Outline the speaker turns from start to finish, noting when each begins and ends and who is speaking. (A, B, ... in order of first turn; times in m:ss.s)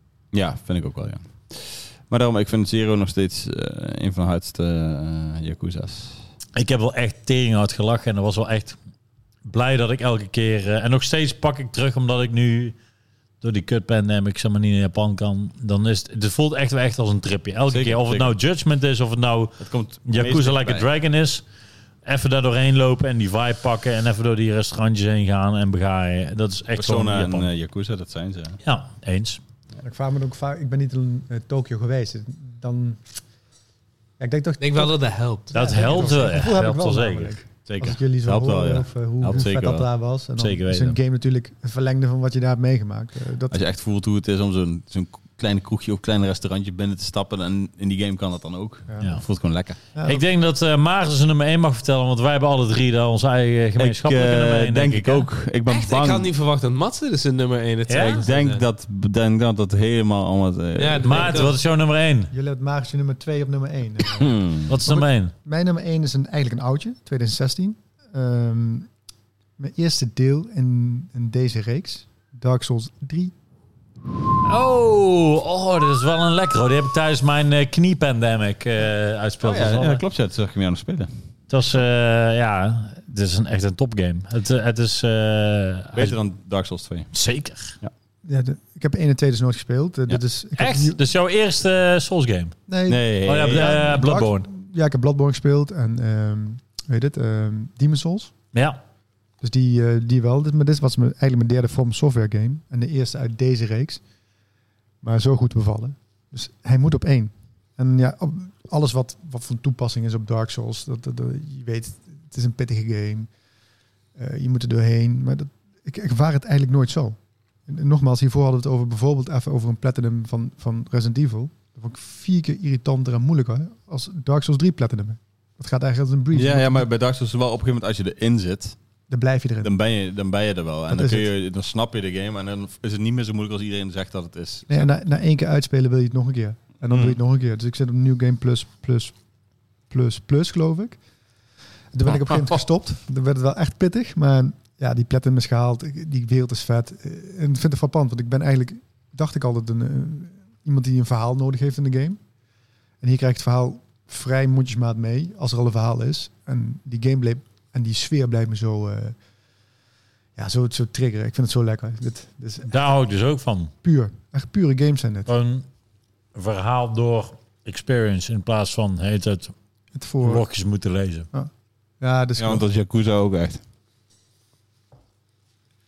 0:00.3-0:06.2 A
0:06.6-0:08.8 B
0:09.4-0:12.7 B
0:13.4-0:21.4 B
0:17.7-0:18.3 A
0:19.6-0:20.8 A
0:22.0-0:27.5 B
0:26.8-0:28.6 A
0:28.6-0:29.4 B
0:29.8-0:33.0 C
0:34.2-0:35.0 C
0:34.6-0:36.2 D
0:35.5-0:43.6 C
0:35.5-0:37.3 B
0:37.6-0:39.8 A
0:40.4-0:41.0 B
0:43.5-0:49.8 A
0:48.9-0:49.2 C
0:49.9-0:50.2 C
0:50.0-0:55.3 B
0:53.8-0:56.3 A
0:55.6-0:58.6 D
0:57.9-0:58.2 B
0:58.0-1:01.5 A
1:00.8-1:01.6 D
1:01.0-1:02.3 B
1:02.3-1:08.9 C
1:04.2-1:04.7 A
1:04.7-1:05.3 B
1:09.6-1:13.3 C
1:14.4-1:20.0 B
1:19.4-1:21.1 A
1:21.5-1:26.2 B
1:25.9-1:27.1 A
1:27.1-1:27.7 B
1:28.2-1:31.0 C
1:30.6-1:32.6 B
1:32.7-1:38.3 C
1:32.9-1:34.0 A
1:33.2-1:34.5 B
1:38.5-1:38.8 B
1:39.4-1:44.0 C
1:45.0-1:53.3 C
1:54.2-2:06.9 C
2:06.3-2:08.8 A
2:09.1-2:09.7 C
2:09.6-2:14.8 A
2:10.9-2:11.3 C
2:14.7-2:19.1 C
2:16.9-2:17.2 A
2:19.9-2:21.0 C
2:21.9-2:32.2 C
2:33.0-2:39.2 C
2:40.4-2:42.7 C
2:42.7-2:43.7 B
2:43.8-2:45.3 C
2:45.3-2:45.6 B
2:46.3-2:49.5 B
2:49.9-2:50.4 C
2:50.2-2:51.3 B
2:51.3-2:52.6 C
2:52.4-2:53.6 A